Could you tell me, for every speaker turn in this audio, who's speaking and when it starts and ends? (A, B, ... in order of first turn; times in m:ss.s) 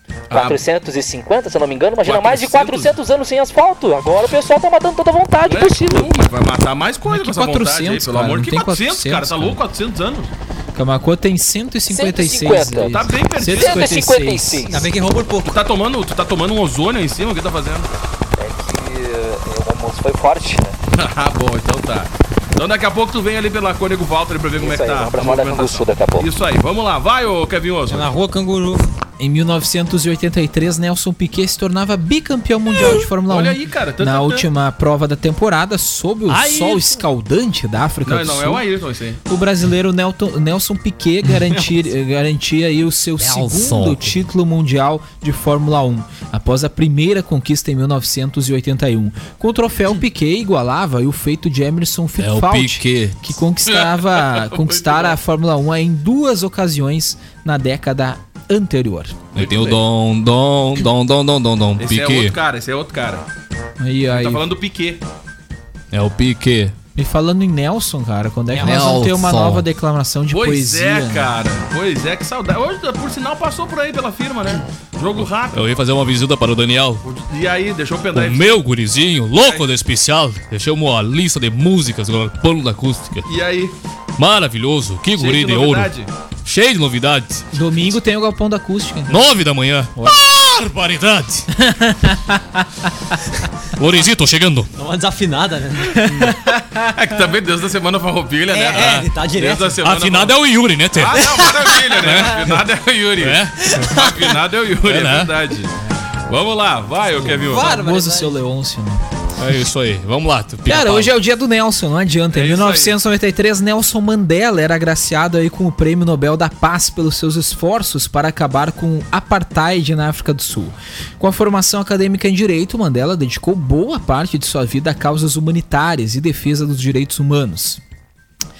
0:00.3-0:00.6 A
0:00.3-0:06.1 B
0:02.0-0:03.0 A
0:05.4-0:10.3 A
0:07.1-0:09.6 C
0:10.7-0:14.7 C
0:11.9-0:14.9 B
0:12.9-0:14.0 A
0:14.7-0:15.6 D
0:15.4-0:17.9 A
0:18.4-0:20.8 B
0:20.9-0:28.1 A
0:24.6-0:26.3 B
0:27.9-0:28.9 D
0:29.2-0:38.6 C
0:33.3-0:34.5 A
0:36.3-0:36.9 E
0:38.0-0:39.2 A
0:39.3-0:59.3 C
0:43.3-0:43.8 B
0:52.2-0:53.2 E
0:53.7-0:55.2 A
0:59.4-0:59.8 A
0:59.4-1:02.3 E
1:01.8-1:03.2 A
1:03.8-1:04.5 C
1:04.1-1:05.0 A
1:05.9-1:06.7 E
1:07.0-1:11.3 C
1:08.6-1:09.6 E
1:10.3-1:15.6 A
1:15.5-1:17.0 E
1:17.0-1:18.6 A
1:18.1-1:23.2 E
1:19.4-1:19.7 A
1:23.3-1:23.8 A
1:24.2-1:25.9 E
1:25.2-1:26.1 A
1:26.5-1:27.4 E
1:27.5-1:29.3 C
1:29.1-1:31.5 E
1:30.0-1:30.2 C
1:31.6-1:32.6 C
1:33.8-1:34.7 E
1:34.8-1:36.1 D
1:36.0-1:36.8 C
1:36.8-1:40.4 A
1:38.5-1:39.8 D
1:39.8-1:41.1 E
1:40.9-1:45.8 A
1:41.1-1:42.2 D
1:43.2-1:43.7 E
1:43.6-1:44.2 D
1:44.9-1:45.3 E
1:46.3-1:47.8 A
1:47.3-1:49.0 C
1:47.4-1:48.4 D
1:49.4-1:51.1 E
1:50.7-2:07.8 C
1:52.3-1:53.0 A